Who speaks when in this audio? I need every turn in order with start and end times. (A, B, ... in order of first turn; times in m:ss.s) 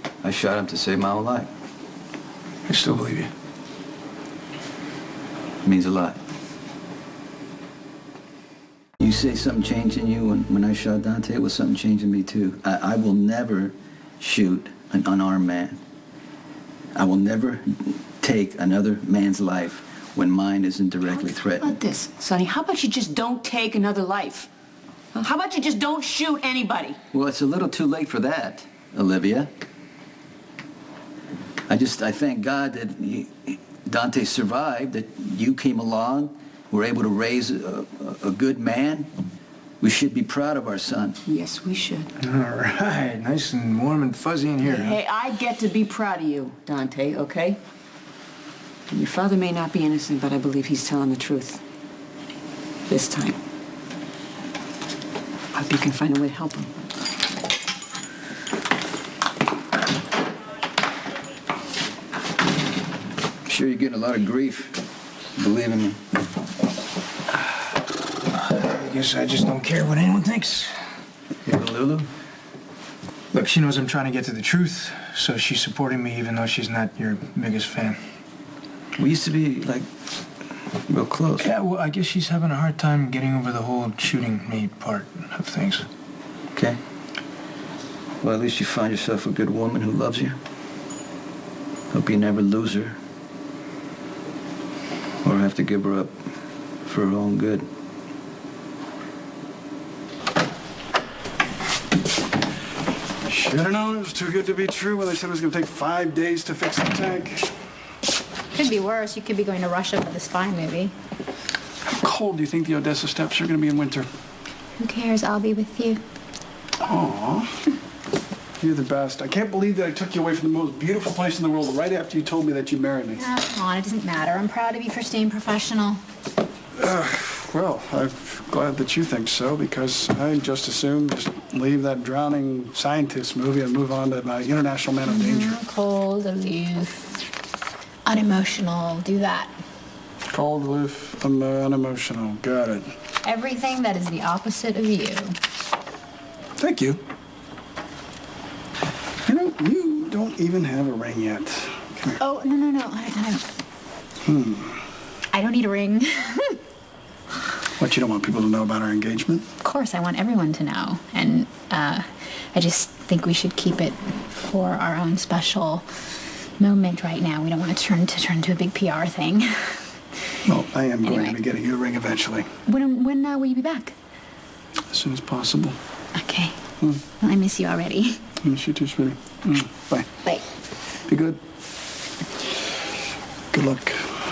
0:00.2-0:01.5 A
0:02.7-0:03.3 B
0:05.6-0:06.2 A
0:09.0-0:15.8 A
0:17.0-0:21.7 A
0:21.2-0:24.5 C
0:25.1-0:27.0 C
0:27.1-0:29.5 A
0:31.7-0:39.1 A
0:39.8-0:41.2 A
0:41.3-0:42.1 C
0:42.2-0:45.0 B
0:44.6-0:47.6 C
0:48.9-0:51.6 C
0:52.9-0:53.4 C
0:55.5-0:56.7 C
1:03.5-1:04.8 A
1:05.4-1:06.0 A
1:08.4-1:10.8 B
1:11.5-1:12.1 A
1:13.3-1:18.0 B
1:19.0-1:19.9 A
1:20.9-1:21.5 A
1:21.4-1:25.9 B
1:28.2-1:30.4 A
1:31.9-1:33.0 A
1:35.2-1:36.1 A
1:36.8-1:37.6 A
1:43.3-1:47.5 D
1:48.5-1:50.9 E
1:51.9-1:54.1 D
1:54.8-1:56.0 E
1:56.8-1:57.6 D
1:58.6-2:03.2 D
2:03.2-2:06.0 E
2:06.8-2:15.6 D
2:15.0-2:17.1 E
2:18.1-2:19.5 E
2:20.3-2:22.9 D
2:23.2-2:25.4 E
2:26.6-2:27.0 D
2:29.3-2:32.2 D
2:32.2-2:33.4 E
2:34.2-2:34.8 D
2:35.3-2:36.6 E
2:37.8-2:39.5 D
2:39.6-2:45.9 E
2:46.6-2:49.8 E
2:50.5-2:52.5 D
2:51.0-2:51.4 E
2:52.7-2:53.9 E
2:54.9-2:55.8 D
2:56.2-2:56.6 E
2:57.1-2:58.2 E
2:58.4-3:00.1 D
3:01.1-3:01.4 D
3:03.5-3:04.2 D